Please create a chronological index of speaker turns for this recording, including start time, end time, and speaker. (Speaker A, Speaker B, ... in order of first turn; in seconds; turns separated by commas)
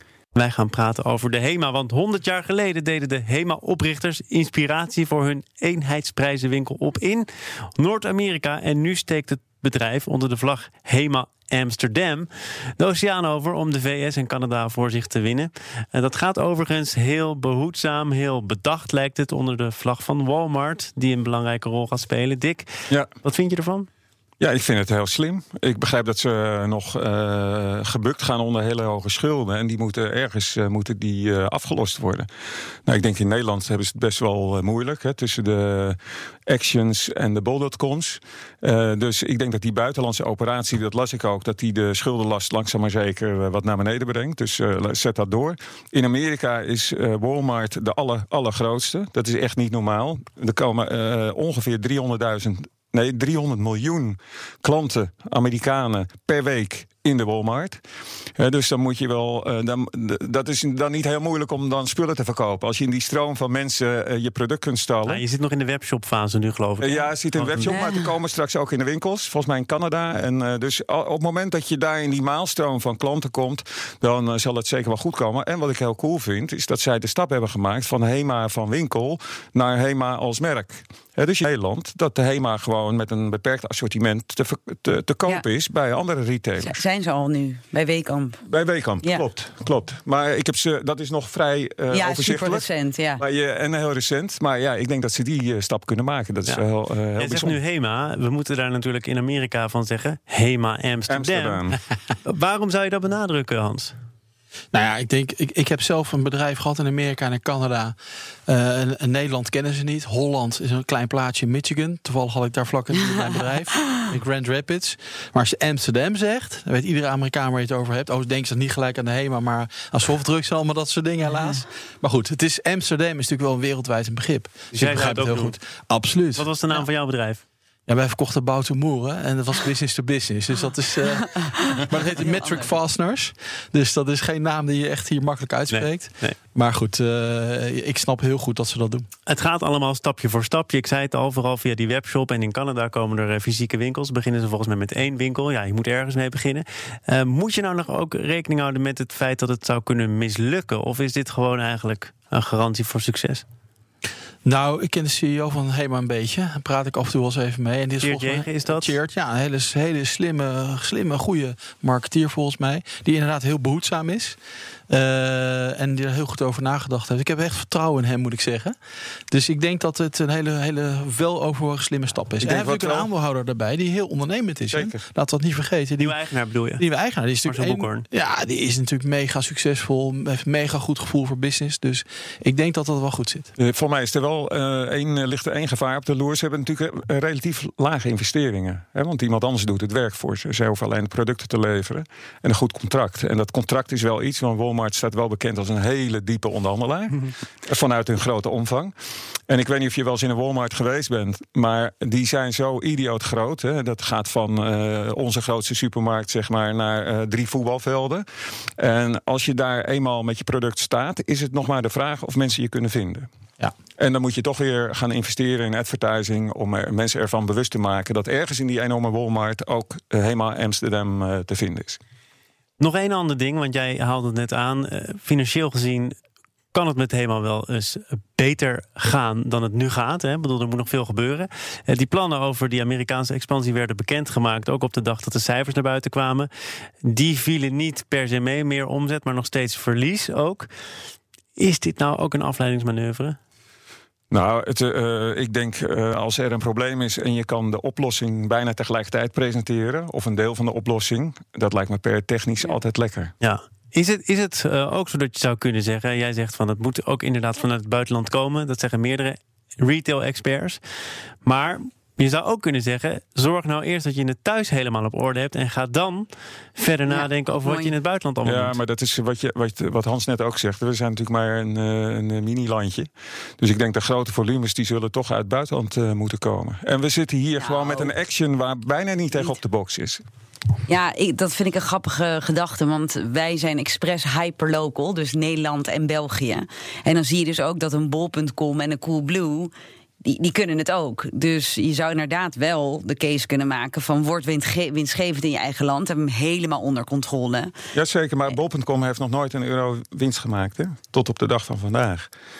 Speaker A: 0.3-23.9, Speaker B: 24.4-32.3, Speaker B: 32.9-57.8, Speaker B: 58.4-65.2, Speaker A: 65.1-67.8, Speaker B: 66.8-86.8, Speaker C: 67.6-68.1, Speaker C: 86.6-88.4, Speaker B: 88.5-92.7, Speaker C: 91.9-93.2, Speaker B: 93.2-97.6, Speaker A: 97.2-101.7, Speaker B: 101.1-101.8, Speaker A: 102.2-103.9, Speaker D: 104.7-108.0, Speaker D: 108.5-126.8, Speaker A: 124.7-125.5, Speaker A: 126.3-127.4, Speaker D: 127.9-139.1, Speaker C: 131.4-132.6, Speaker A: 135.7-136.4, Speaker A: 139.3-153.4, Speaker D: 154.4-164.4, Speaker A: 158.0-158.9, Speaker D: 164.9-168.8, Speaker D: 169.3-176.2, Speaker B: 172.4-173.1, Speaker B: 174.7-175.0, Speaker A: 176.0-176.8, Speaker D: 176.8-183.5, Speaker A: 177.5-178.1, Speaker B: 183.6-198.9, Speaker B: 199.5-208.2, Speaker B: 208.8-213.3, Speaker B: 214.0-222.0, Speaker A: 222.8-226.1, Speaker A: 226.7-236.5, Speaker A: 237.0-240.7, Speaker A: 241.6-243.4, Speaker B: 244.3-253.3, Speaker A: 253.4-260.8, Speaker A: 261.4-268.8, Speaker C: 267.1-267.9, Speaker B: 268.4-280.2, Speaker C: 277.6-278.1, Speaker C: 280.9-289.7, Speaker C: 290.2-297.7, Speaker B: 297.9-302.3